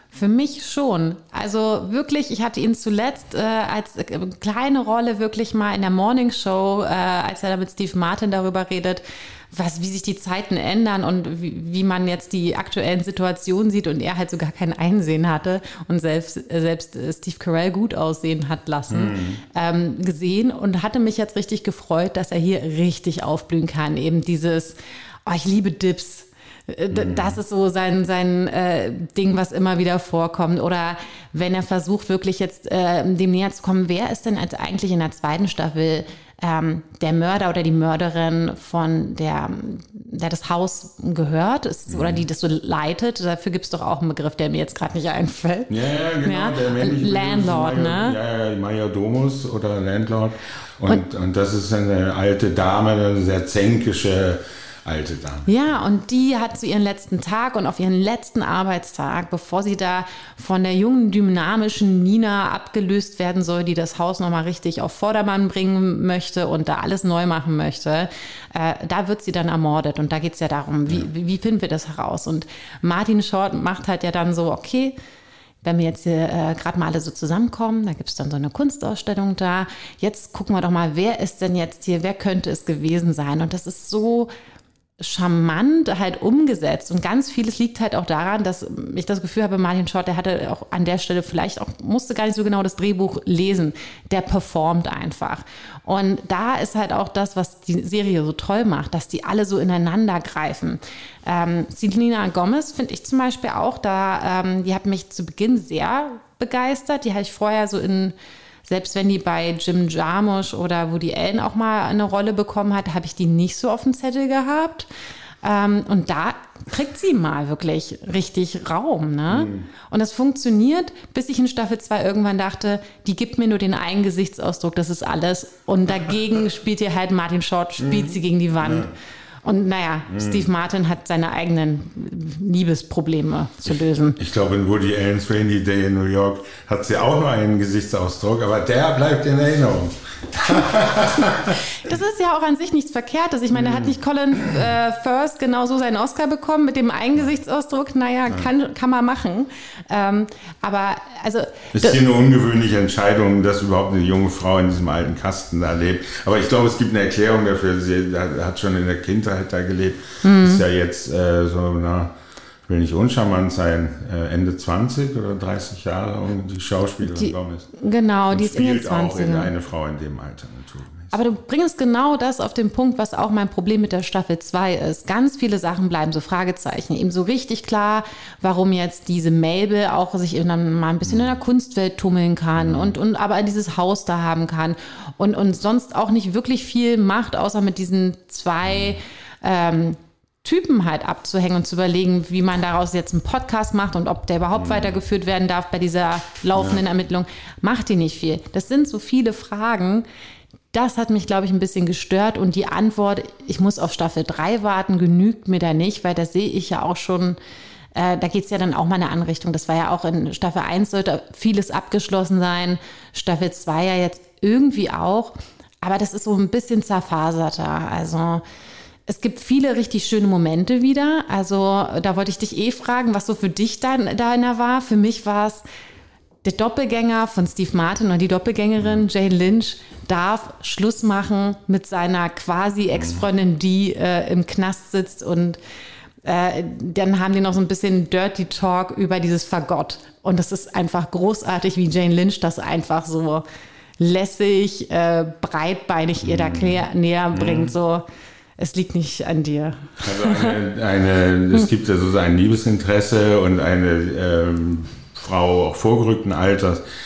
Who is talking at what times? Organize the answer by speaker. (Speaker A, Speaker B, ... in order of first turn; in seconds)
Speaker A: 0.1-48.2, 55.5-75.0, 75.6-84.3, 85.0-108.1, 108.7-114.9, 115.4-128.9, 129.4-134.2, 141.8-152.0, 160.2-160.6, 167.0-169.5, 171.1-200.0, 200.7-207.4, 207.9-218.4, 219.1-225.6, 226.4-235.6, 236.2-243.4, 244.0-248.0, 248.6-250.6
Speaker B: 18.9-19.4, 26.9-27.4, 41.9-42.2, 45.7-55.5, 119.3-119.7, 127.8-128.9, 130.1-130.5, 134.2-141.6, 143.5-144.0, 151.7-162.1, 162.7-167.7, 168.3-171.2, 181.0-181.3, 182.6-183.0, 188.6-189.0, 194.5-195.0, 196.5-196.8, 232.9-233.3, 246.2-247.8, 250.0-256.8